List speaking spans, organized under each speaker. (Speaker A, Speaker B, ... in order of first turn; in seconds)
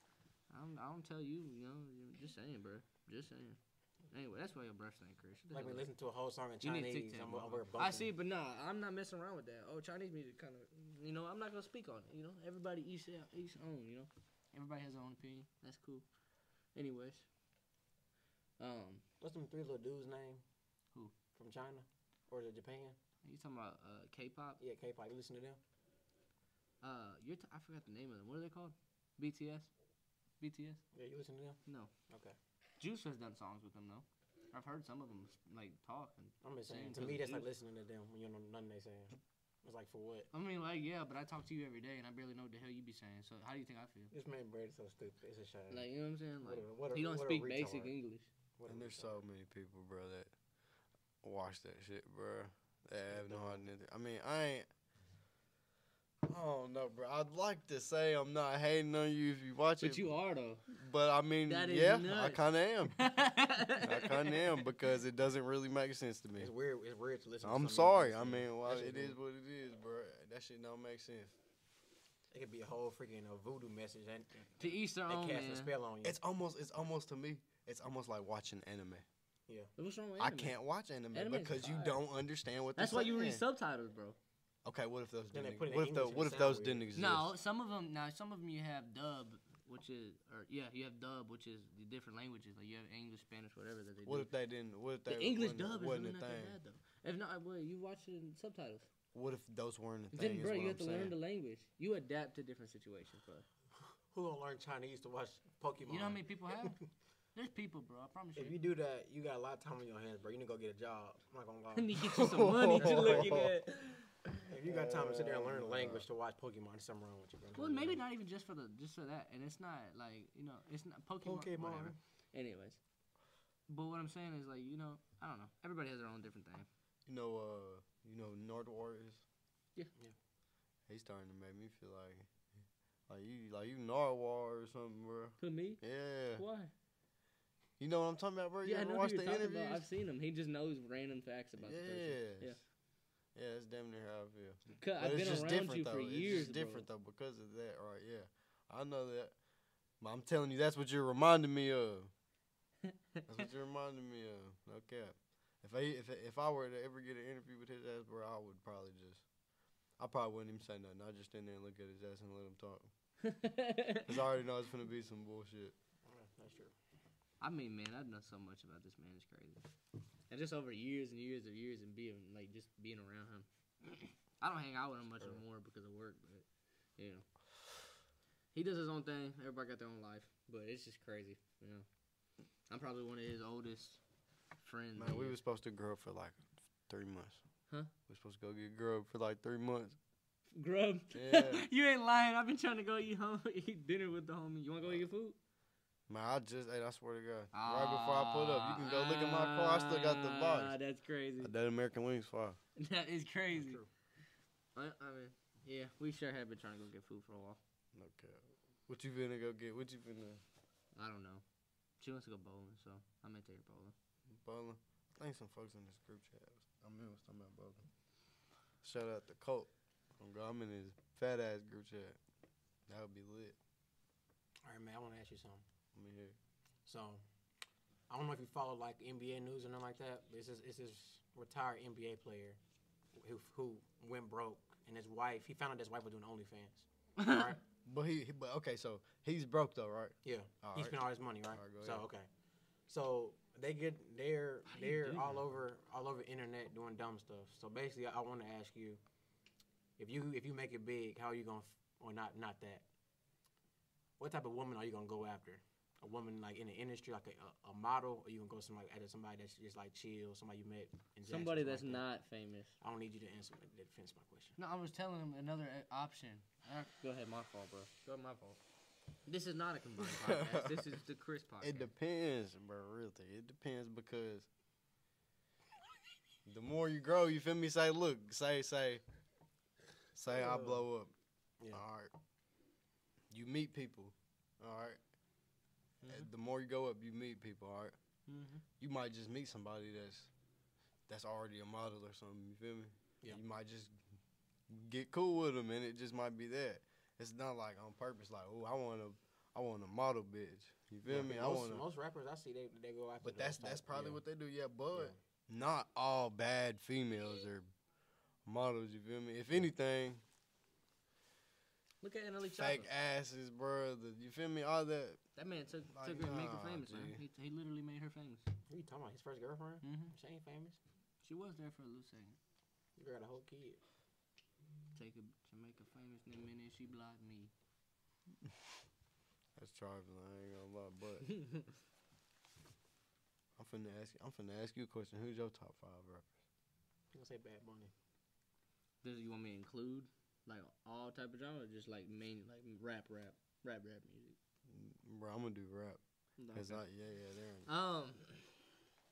Speaker A: 0.5-3.6, 4.1-5.9, 6.6-16.1, 16.8-17.3, 18.6-19.0, 23.2-24.6, 26.8-29.7, 30.4-30.8, 31.6-31.9, 32.8-37.5, 40.3-44.1, 45.7-48.3, 59.8-60.6, 61.5-64.6, 74.6-75.7, 79.8-80.6, 81.1-82.0, 82.8-84.2, 87.0-94.3, 95.1-98.9, 100.1-103.5, 105.9-106.8, 107.3-108.6, 111.8-114.1, 117.6-122.8, 123.7-126.7, 135.4-135.8, 136.4-136.7, 138.6-142.6, 144.8-146.9, 152.9-153.3, 163.2-164.2, 167.4-169.6, 170.3-176.5, 177.0-177.3, 178.5-181.9, 182.7-184.0, 184.6-185.4, 190.5-195.4, 197.5-201.5, 202.8-203.8, 204.8-207.6, 210.9-211.4, 212.0-213.9, 237.2-237.6, 244.7-245.4, 261.3-262.7, 264.6-268.6, 269.3-271.9, 286.0-286.3, 288.3-288.6, 312.0-312.9, 315.4-318.4, 319.8-320.1, 321.2-322.4, 324.9-327.5, 339.0-344.4, 346.4-346.8, 347.6-348.6
Speaker B: 5.5-8.1, 19.2-20.4, 21.4-23.0, 24.6-25.6, 30.9-32.4, 36.4-40.3, 44.1-45.9, 46.4-47.9, 48.6-49.2, 53.1-53.6, 66.4-69.2, 72.3-76.2, 85.3-86.9, 104.1-106.8, 108.4-112.0, 112.7-113.4, 114.5-118.0, 121.2-122.0, 166.1-166.7, 203.5-203.9, 224.6-225.6, 226.9-227.2, 228.1-232.6, 233.2-237.6, 240.2-242.3, 242.9-249.0, 250.0-252.8, 254.2-262.1, 262.8-264.6, 280.3-280.8, 301.1-304.2, 318.7-320.8, 323.0-323.8, 337.1-337.9
Speaker C: 48.7-50.3, 51.2-54.7, 56.2-60.1, 60.7-63.0, 63.8-66.5, 67.4-71.3, 76.0-79.0, 80.2-83.4, 84.6-87.3, 94.1-96.6, 99.1-101.2, 112.0-113.5, 114.5-116.1, 127.1-129.2, 130.9-132.3, 133.1-136.4, 137.8-139.9, 141.6-142.6, 143.3-149.3, 150.0-152.1, 153.3-159.2, 160.0-162.9, 164.1-165.8, 185.0-187.4, 188.1-190.0, 191.1-191.6, 196.1-200.8, 201.4-202.6, 207.9-210.4, 214.3-217.8, 218.8-222.2, 222.9-223.6, 225.9-226.3, 237.8-241.0, 241.5-242.1, 270.0-271.0, 271.6-274.5, 276.5-279.0, 280.1-281.1, 281.7-282.1, 283.3-285.0, 286.1-288.0, 288.8-290.3, 291.1-293.9, 294.7-301.8, 303.2-307.7, 308.5-310.2, 312.6-315.2, 315.9-317.2, 329.6-331.3, 333.6-336.3, 344.7-346.0, 346.5-347.7